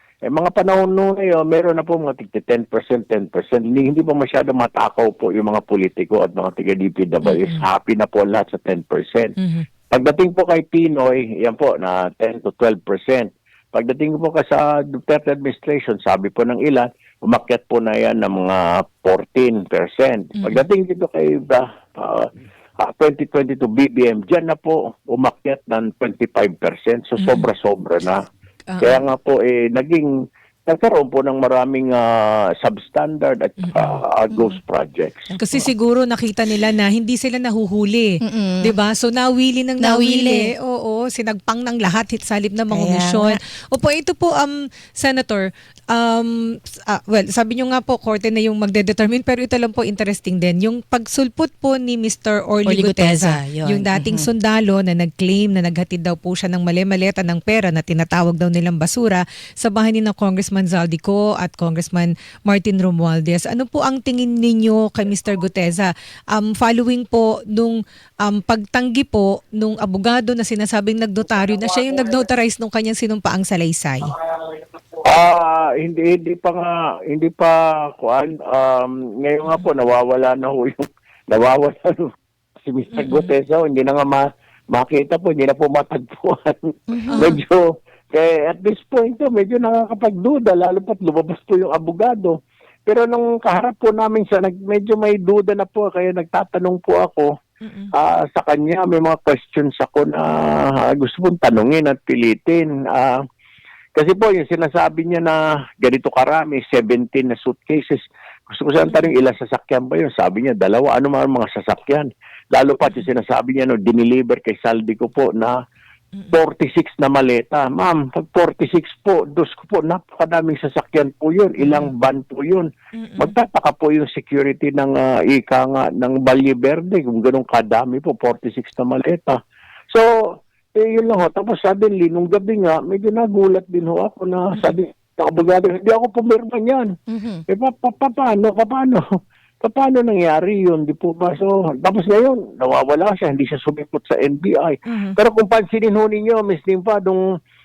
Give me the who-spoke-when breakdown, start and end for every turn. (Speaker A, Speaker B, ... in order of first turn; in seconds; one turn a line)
Speaker A: 0.3-9.3
Speaker B: 9.4-9.7
Speaker A: 9.9-28.3
Speaker B: 20.4-20.6
Speaker B: 28.7-29.0
Speaker A: 28.8-35.3
Speaker B: 33.6-34.0
Speaker C: 35.3-35.7
Speaker B: 35.4-74.2
Speaker C: 38.2-38.7
Speaker C: 39.8-40.5
Speaker C: 42.7-43.4
Speaker C: 52.7-54.3
Speaker A: 75.0-97.3
Speaker C: 83.0-83.3
Speaker C: 86.9-87.4
Speaker B: 97.6-97.9
Speaker A: 97.9-103.2
Speaker A: 104.0-115.6
Speaker A: 116.3-129.4
Speaker B: 121.6-121.9
Speaker B: 123.0-123.3
Speaker A: 129.9-136.9
Speaker C: 137.1-137.4
Speaker A: 137.5-139.1
Speaker A: 139.6-147.2
Speaker B: 144.9-145.2